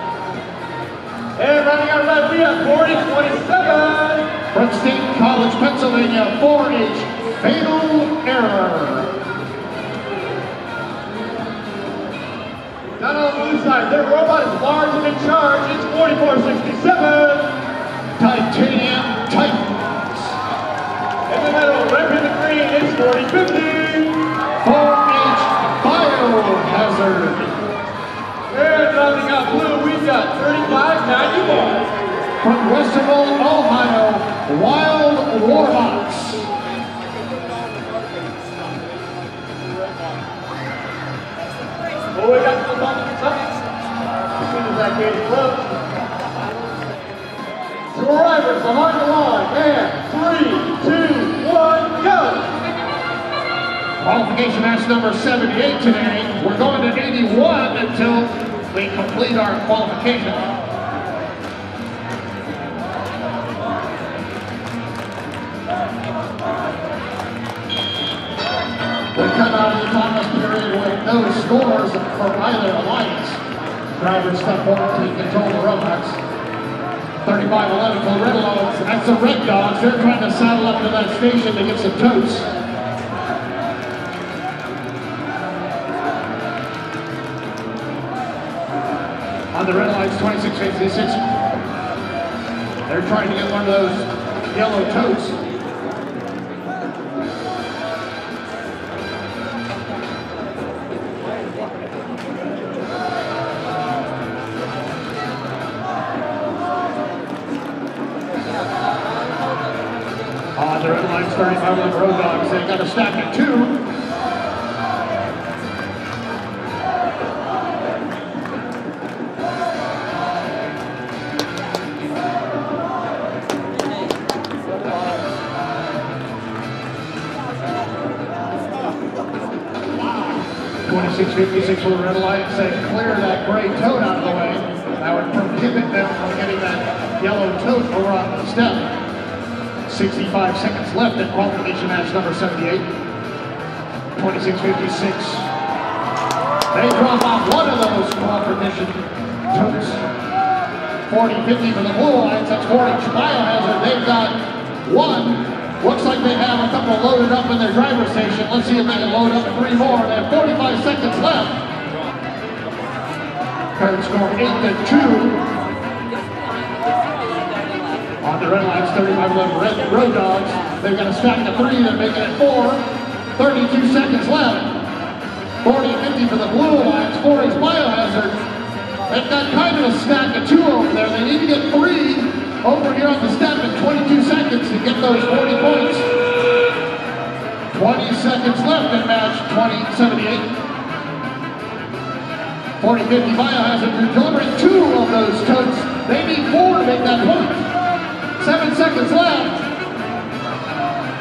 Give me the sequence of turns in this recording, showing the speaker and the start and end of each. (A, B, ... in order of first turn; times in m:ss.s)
0:01.4-0:04.3 A
0:04.5-0:09.1 B
0:13.0-0:17.6 A
0:18.2-0:20.4 B
0:21.3-0:24.2 A
0:24.6-0:27.5 B
0:28.5-0:31.9 A
0:32.4-0:36.5 B
0:42.1-0:43.4 A
0:44.3-0:45.7 A
0:47.9-0:52.6 A
0:54.0-1:00.5 B
1:09.1-1:13.4 B
1:14.0-1:16.2 B
1:17.2-1:22.5 B
1:29.5-1:31.2 B
1:32.9-1:35.4 B
1:50.6-1:53.8 B
2:10.8-2:18.9 B
2:19.8-2:22.9 B
2:24.1-2:25.5 B
2:26.7-2:30.0 B
2:31.1-2:41.6 B
2:43.8-2:45.4 B
2:48.2-2:52.8 B
2:53.4-2:54.8 B
2:55.6-2:58.4 B
2:59.1-3:06.1 B
3:07.7-3:10.6 B
3:12.8-3:17.7 B
3:18.4-3:19.6 B